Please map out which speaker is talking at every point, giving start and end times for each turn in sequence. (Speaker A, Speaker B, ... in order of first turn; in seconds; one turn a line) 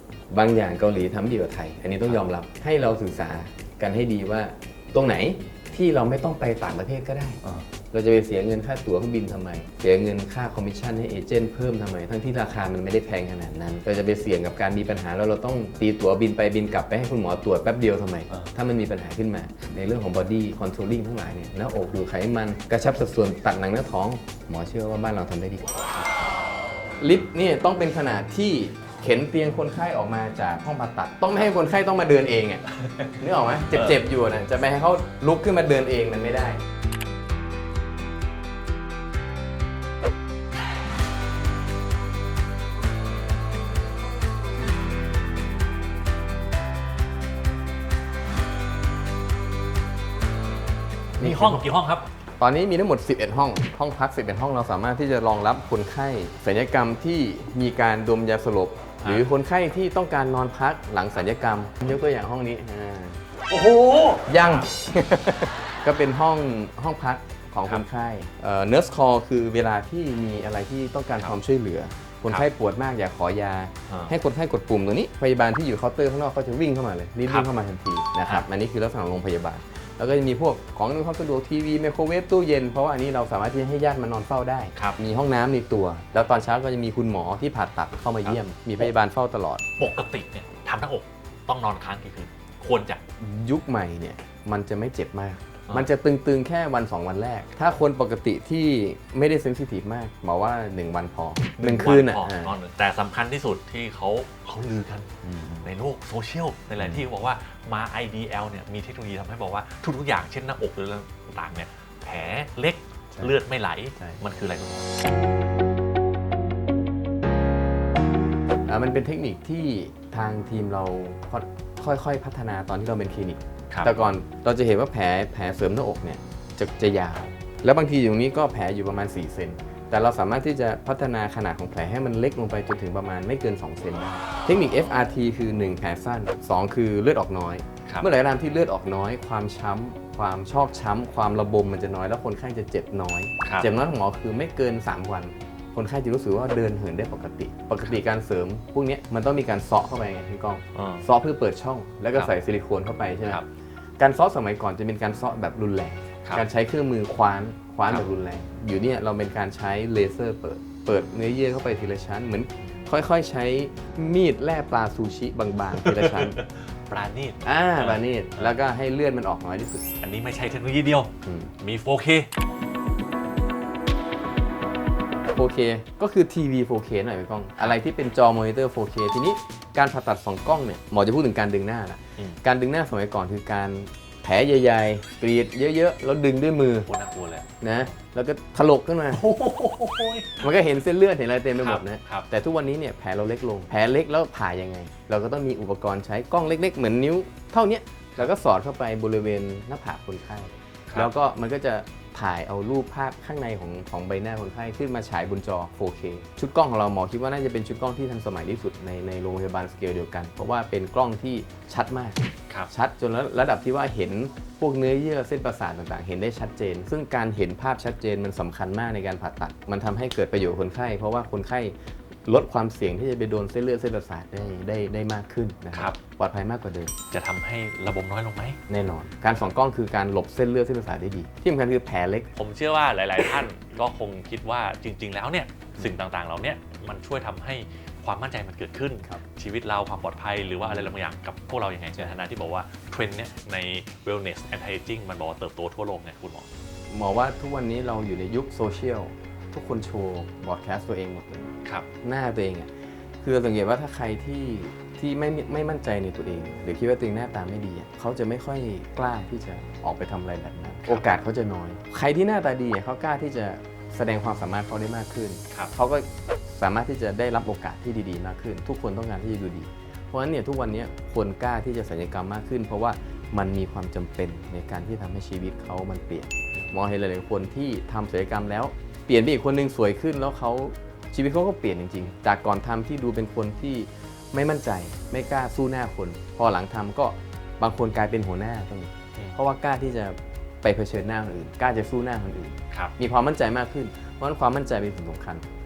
Speaker A: 0.3-25.8
Speaker A: 27.0-32.6
Speaker B: 32.8-33.1
Speaker A: 33.2-36.6
Speaker B: 33.7-34.0
Speaker A: 51.2-51.7
Speaker B: 51.2-52.0
Speaker A: 52.4-63.2
Speaker B: 63.5-64.7
Speaker A: 64.2-89.6
Speaker B: 88.2-88.9
Speaker B: 89.8-93.0
Speaker A: 93.2-102.5
Speaker B: 101.6-114.9
Speaker A: 105.2-105.7
Speaker A: 106.8-107.0
Speaker A: 118.7-153.4
Speaker B: 150.7-151.0
Speaker A: 154.0-166.4
Speaker B: 165.7-168.6
Speaker A: 167.4-169.9
Speaker B: 170.0-172.3
Speaker A: 171.2-171.5
Speaker A: 175.3-186.9
Speaker B: 186.8-187.5
Speaker A: 187.6-189.2
Speaker B: 189.1-190.4
Speaker A: 190.4-212.2
Speaker B: 191.5-192.3
Speaker A: 212.7-221.7
Speaker A: 222.2-226.9
Speaker B: 225.7-226.0
Speaker B: 227.1-228.6
Speaker A: 228.7-232.3
Speaker B: 232.3-246.5
Speaker A: 240.7-240.9
Speaker A: 246.9-251.5
Speaker A: 252.0-252.7
Speaker A: 253.2-295.4
Speaker B: 260.8-261.1